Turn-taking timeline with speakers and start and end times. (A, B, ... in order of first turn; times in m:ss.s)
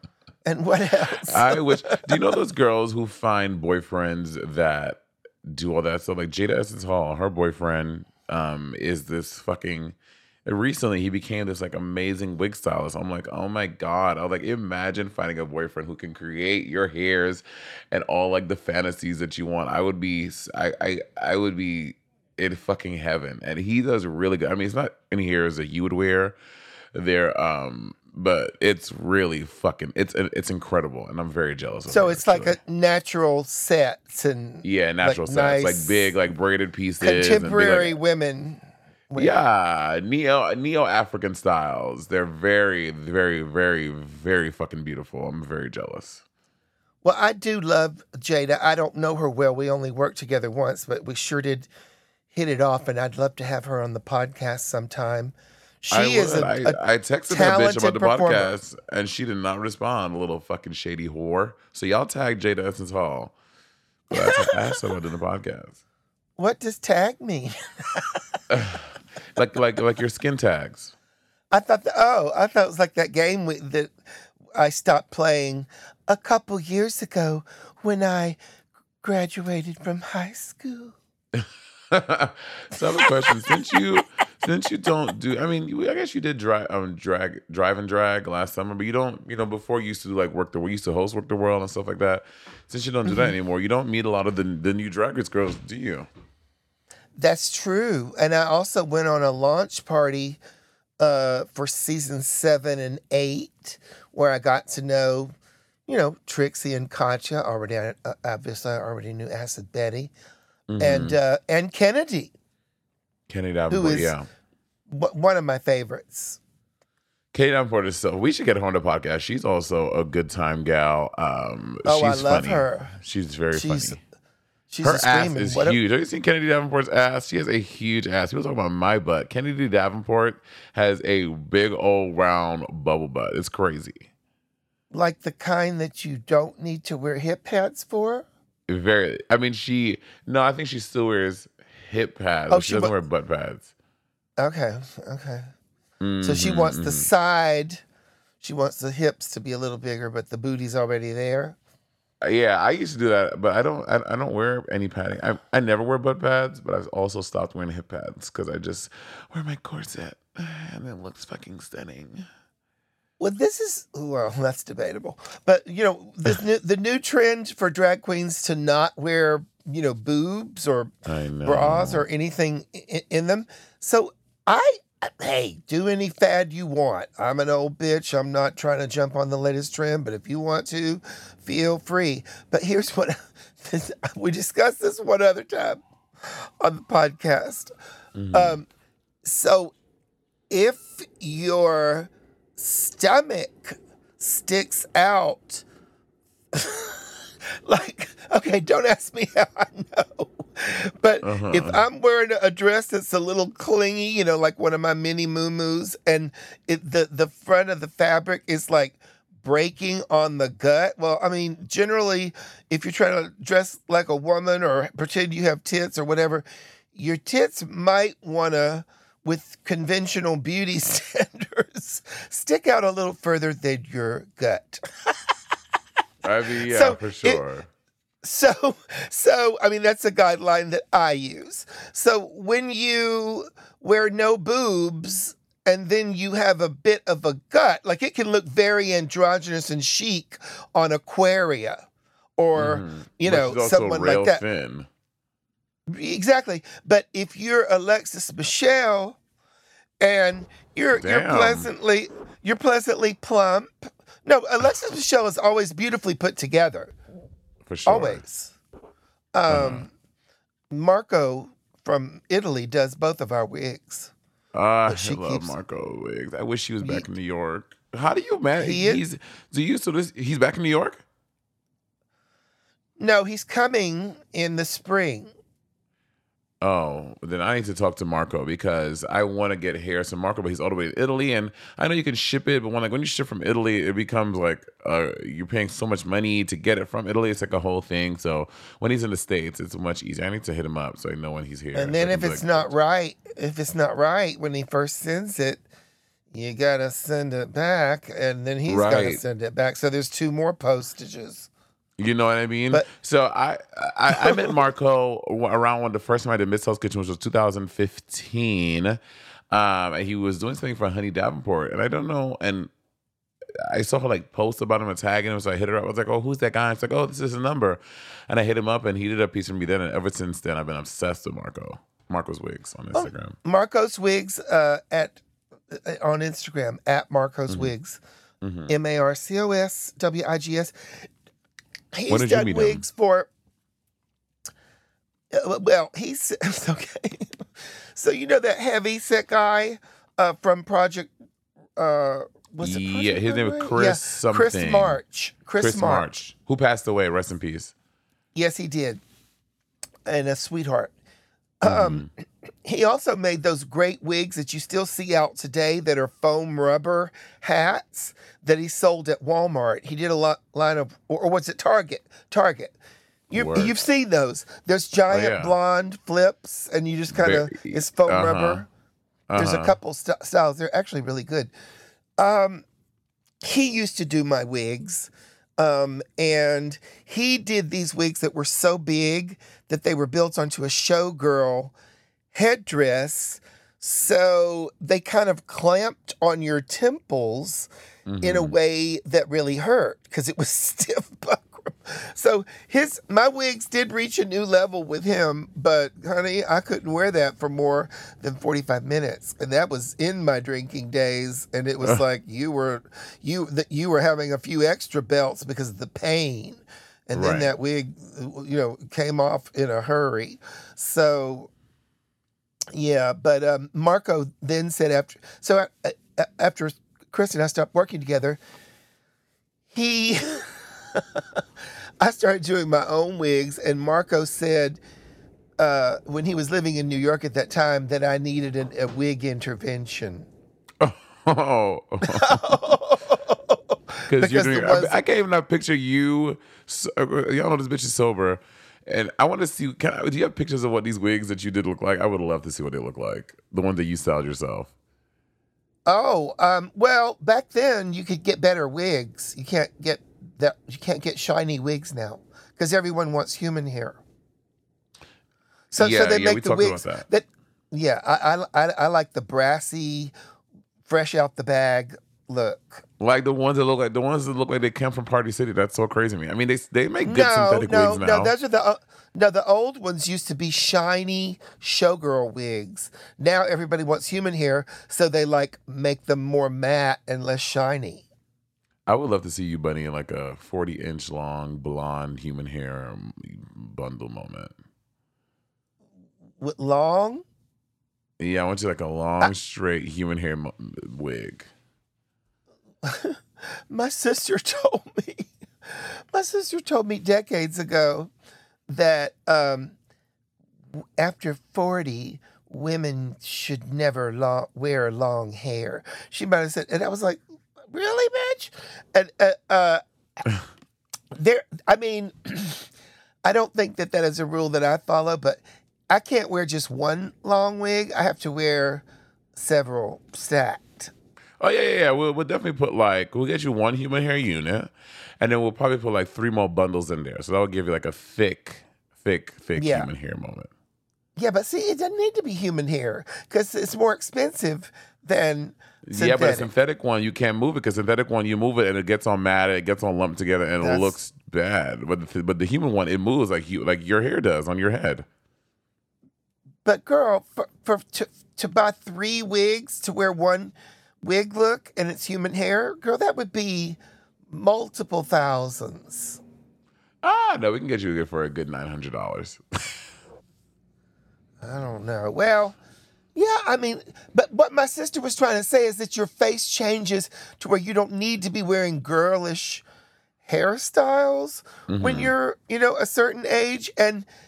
0:00.4-0:02.2 A
0:01.3-0:26.4 B
0:26.9-0:32.6 B
0:31.9-0:36.1 A
0:34.6-0:37.9 B
0:37.0-0:39.3 A
0:39.1-0:46.2 B
0:47.0-0:51.7 A
0:52.3-0:56.8 A
0:55.9-1:03.3 B
0:57.3-0:58.5 A
1:04.1-1:05.8 B
1:04.1-1:04.8 A
1:06.4-1:08.4 A
1:08.5-1:08.8 B
1:09.3-1:10.9 B
1:11.5-1:13.9 A
1:14.5-1:18.4 A
1:19.0-1:20.9 A
1:21.3-1:36.1 B
1:23.0-1:23.5 A
1:33.1-1:33.3 A
1:37.2-1:40.4 A
1:41.0-1:45.3 A
1:45.9-1:50.1 A
1:50.7-1:51.2 B
1:50.8-1:52.3 A
1:53.3-1:54.3 B
1:53.7-1:54.2 A
1:54.9-1:56.4 A
1:57.3-2:04.0 B
2:01.8-2:03.0 A
2:03.5-2:04.0 A
2:04.7-2:05.8 A
2:04.8-2:14.1 B
2:14.9-2:18.2 A
2:18.7-2:23.7 B
2:22.5-2:22.9 A
2:24.4-2:25.5 A
2:26.0-2:27.1 B
2:26.2-2:27.8 A
2:28.4-2:31.6 A
2:32.2-2:42.3 B
2:43.2-2:50.9 A
2:51.0-2:52.0 B
2:51.4-3:07.7 A
3:08.2-3:08.6 B
3:08.3-3:08.7 A
3:09.2-3:09.7 A
3:10.5-3:15.6 A
3:16.5-3:17.1 A
3:17.6-3:45.2 A
3:21.2-3:21.8 B
3:46.2-3:47.7 B
3:46.7-3:47.4 A
3:48.2-4:01.8 A
4:02.4-4:04.4 A
4:02.6-4:04.9 B
4:05.9-4:09.2 A
4:10.0-4:16.9 A
4:10.9-4:11.7 B
4:17.6-4:18.2 B
4:17.8-4:18.5 A
4:19.3-4:19.9 A
4:19.5-4:19.8 B
4:20.7-4:24.1 A
4:24.5-4:31.0 B
4:24.9-4:25.5 A
4:28.6-4:29.0 A
4:33.0-4:35.3 A
4:36.6-4:52.7 B
4:51.7-4:55.6 A
4:56.3-5:01.5 A
4:58.6-4:59.2 B
5:02.0-5:09.0 B
5:04.2-5:04.5 A
5:09.5-5:12.7 B
5:13.6-5:23.4 B
5:22.9-5:25.2 A
5:25.7-5:28.0 A
5:28.4-5:28.7 B
5:28.7-5:31.0 A
5:31.9-5:33.3 A
5:32.1-5:32.8 B
5:35.3-5:41.1 A
5:41.8-5:46.0 A
5:42.6-5:45.0 B
5:45.6-5:47.7 B
5:48.3-5:49.0 A
5:50.0-5:50.9 A
5:51.6-5:52.1 A
5:51.6-5:52.1 B
5:52.6-6:02.7 A
6:03.3-6:08.7 A
6:03.3-6:03.7 B
6:05.1-6:05.5 B
6:07.1-6:08.6 B
6:09.3-6:09.8 B
6:09.3-6:11.5 A
6:12.2-6:12.6 A
6:13.4-6:21.7 A
6:22.3-6:27.7 A
6:28.1-6:28.6 B
6:28.2-6:51.5 A
6:47.1-6:47.5 B
6:52.7-6:58.4 A
6:59.7-7:01.4 A
7:02.0-7:04.8 A
7:05.6-7:10.3 A
7:10.8-7:12.6 B
7:12.0-7:15.0 A
7:14.1-7:24.7 B
7:25.9-7:34.0 A
7:35.7-7:37.0 B
7:35.7-7:40.1 A
7:40.8-7:42.8 A
7:43.0-7:48.3 B
7:47.0-7:58.0 A
7:58.9-8:04.5 B
8:06.4-8:07.2 A
8:08.2-8:11.5 B
8:12.8-8:18.1 A
8:18.7-8:19.7 A
8:20.7-8:29.8 A
8:31.1-8:32.7 A
8:33.2-8:38.8 A
8:39.4-8:40.9 A
8:41.4-8:50.5 B
8:49.6-8:49.9 A
8:51.2-8:56.5 A
8:55.8-9:05.0 B
9:00.6-9:00.9 A
9:06.6-9:13.8 A
9:14.3-9:16.2 A
9:17.0-9:19.8 B
9:21.4-9:22.6 A
9:23.1-9:29.6 A
9:30.2-9:34.1 A
9:31.7-9:32.1 B